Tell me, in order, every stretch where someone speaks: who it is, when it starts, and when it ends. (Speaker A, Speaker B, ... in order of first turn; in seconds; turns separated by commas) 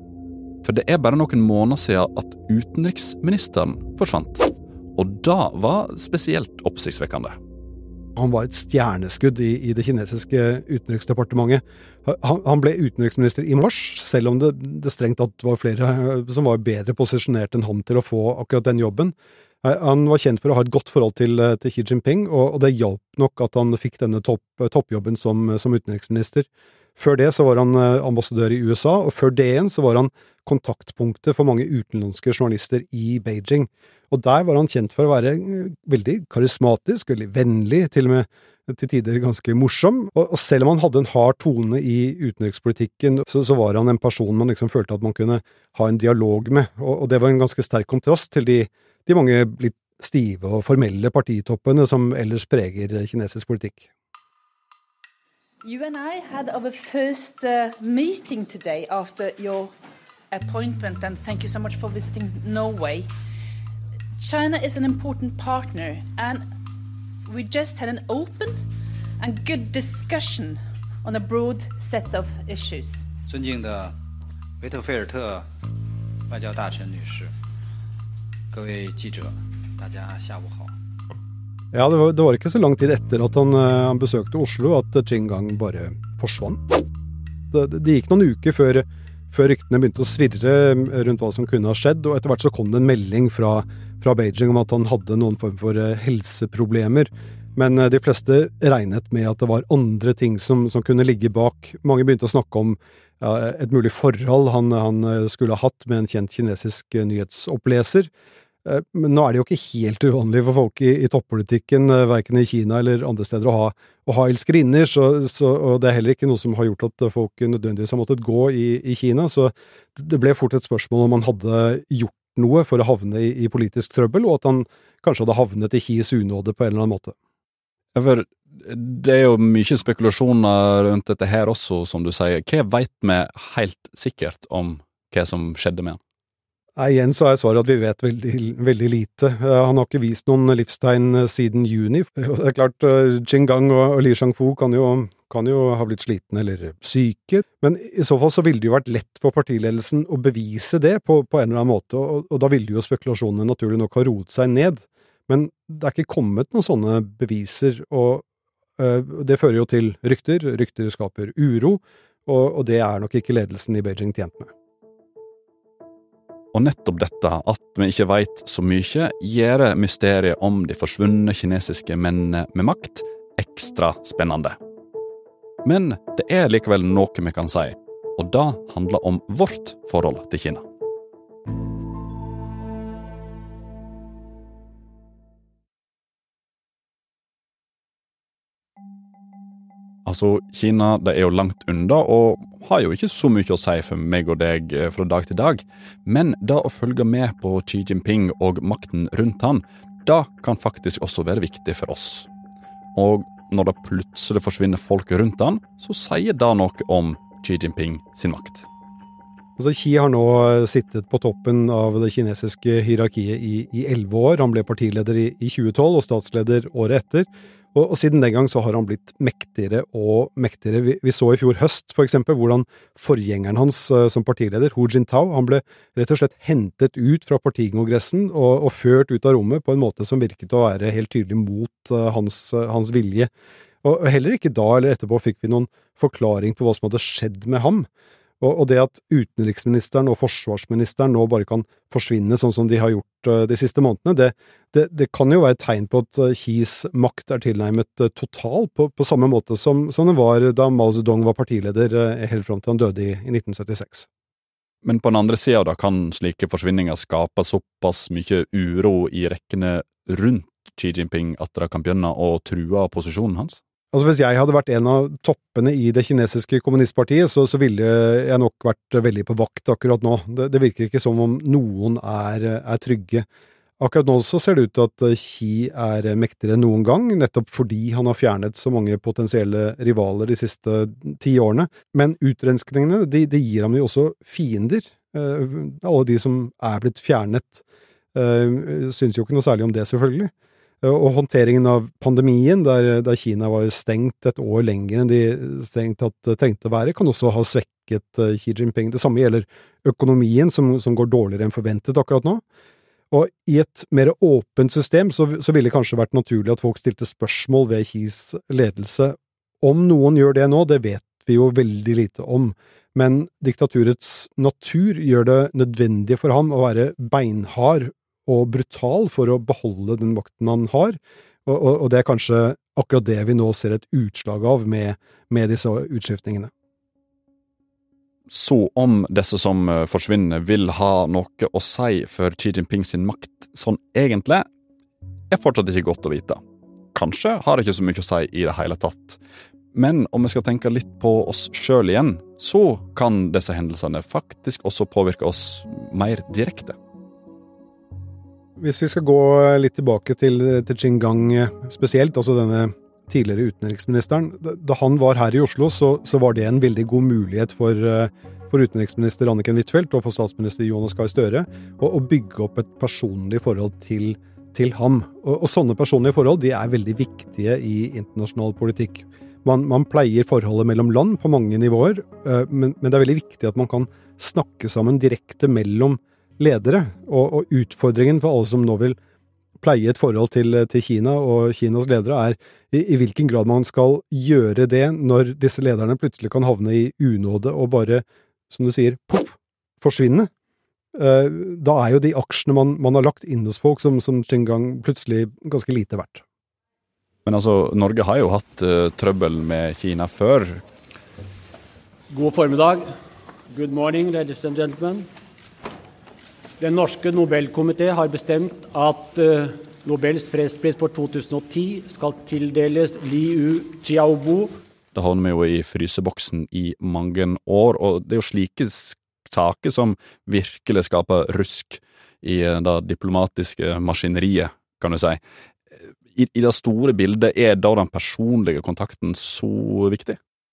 Speaker A: 0.6-7.4, Speaker B: 8.2-53.9, Speaker C: 55.6-59.7, Speaker C: 60.3-63.1, Speaker C: 64.2-66.5, Speaker C: 67.2-68.6, Speaker C: 69.2-73.1, Speaker D: 73.3-74.0, Speaker D: 74.6-75.5, Speaker D: 76.3-77.3, Speaker D: 78.5-80.7, Speaker B: 81.7-86.8, Speaker B: 87.5-108.1, Speaker B: 108.7-127.2, Speaker A: 128.0-136.0, Speaker B: 136.8-158.2, Speaker B: 158.8-164.5, Speaker A: 166.5-174.6, Speaker A: 175.6-180.7, Speaker A: 190.1-202.3, Speaker A: 202.9-208.7, Speaker B: 209.6-233.3, Speaker B: 233.8-237.9, Speaker B: 238.4-254.1, Speaker A: 254.8-263.6, Speaker B: 263.9-273.3, Speaker B: 273.8-290.3, Speaker B: 290.8-302.4, Speaker B: 303.1-326.5, Speaker A: 328.3-334.5, Speaker A: 335.3-336.4, Speaker A: 336.9-339.2, Speaker A: 339.7-346.8, Speaker B: 348.6-379.0, Speaker B: 379.6-390.3, Speaker B: 390.9-396.2, Speaker A: 397.3-400.6, Speaker E: 402.1-402.9, Speaker E: 403.5-405.1, Speaker E: 406.6-414.5, Speaker A: 414.9-425.2, Speaker A: 426.1-430.2